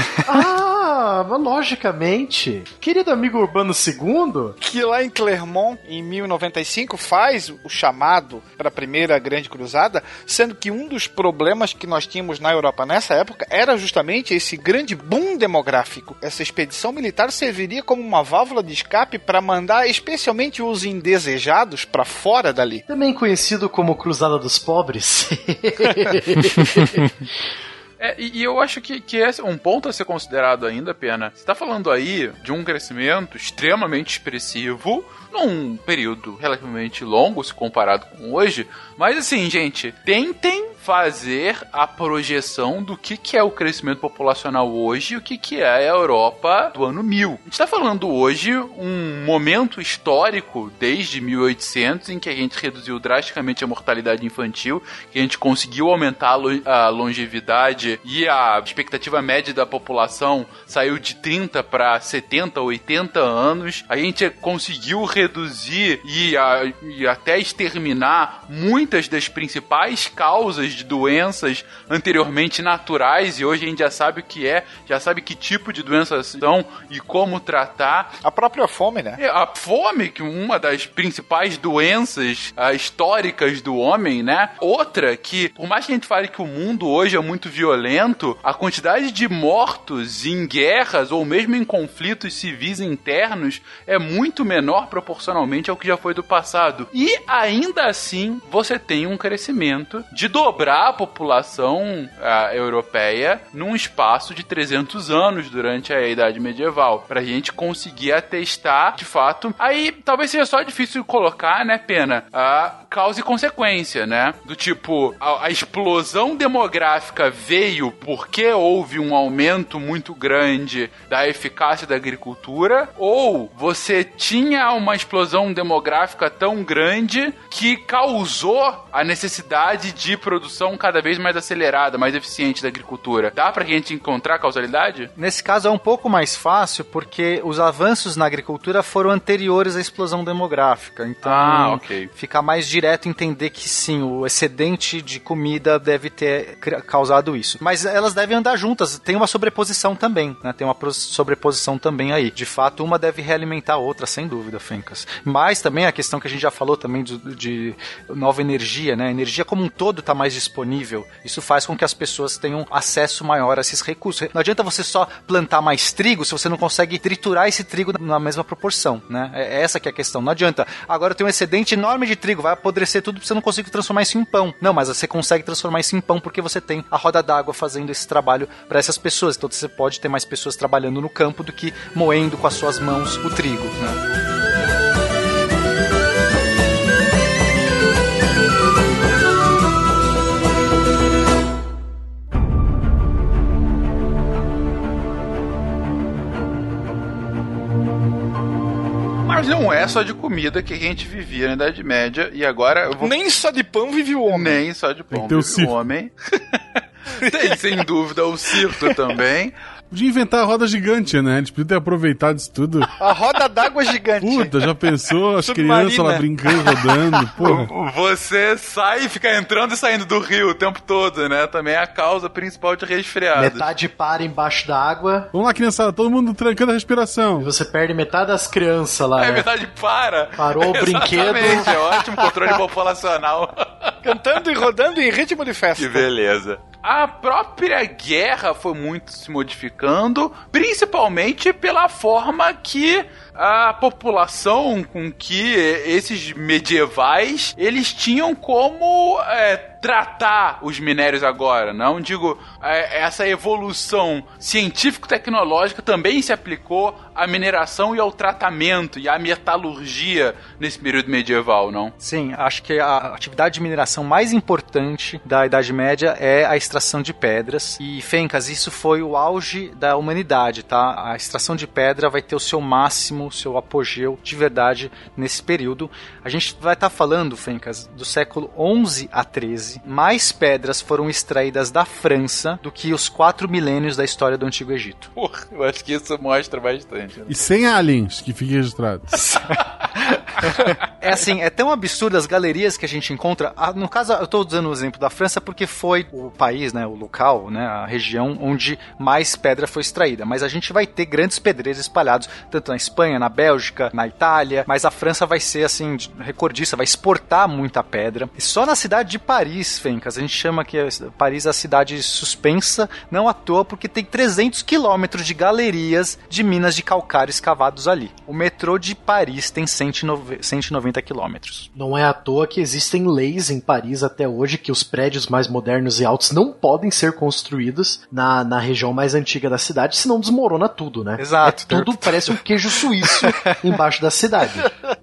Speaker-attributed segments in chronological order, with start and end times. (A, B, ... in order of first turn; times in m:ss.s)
0:00.2-0:04.6 A
0:04.6-0:22.8 B
0:22.9-0:27.1 A
0:28.0-1:18.1 C
1:18.2-1:19.2 B
1:19.2-2:15.1 C
2:15.2-3:04.0 D
2:21.2-2:22.1 C
3:19.2-3:23.1 C
3:23.0-3:24.6 B
3:24.3-3:29.5 C
3:25.1-3:25.7 E
3:27.2-3:27.6 B
3:29.9-3:32.9 E
3:33.0-3:34.5 B
3:34.2-3:37.7 E
3:35.4-3:36.3 B
3:37.4-3:43.7 C
3:43.3-3:45.3 A
3:45.3-3:47.5 E
3:47.4-3:49.4 A
3:49.2-3:54.2 C
3:50.4-3:51.8 A
3:54.0-3:56.1 B
3:55.8-4:21.9 C
4:22.0-4:45.1 D
4:45.2-4:47.4 C
4:47.3-4:49.4 E
4:51.0-5:21.7 D
5:21.7-5:34.7 A
5:31.2-5:32.4 D
5:33.2-5:33.7 D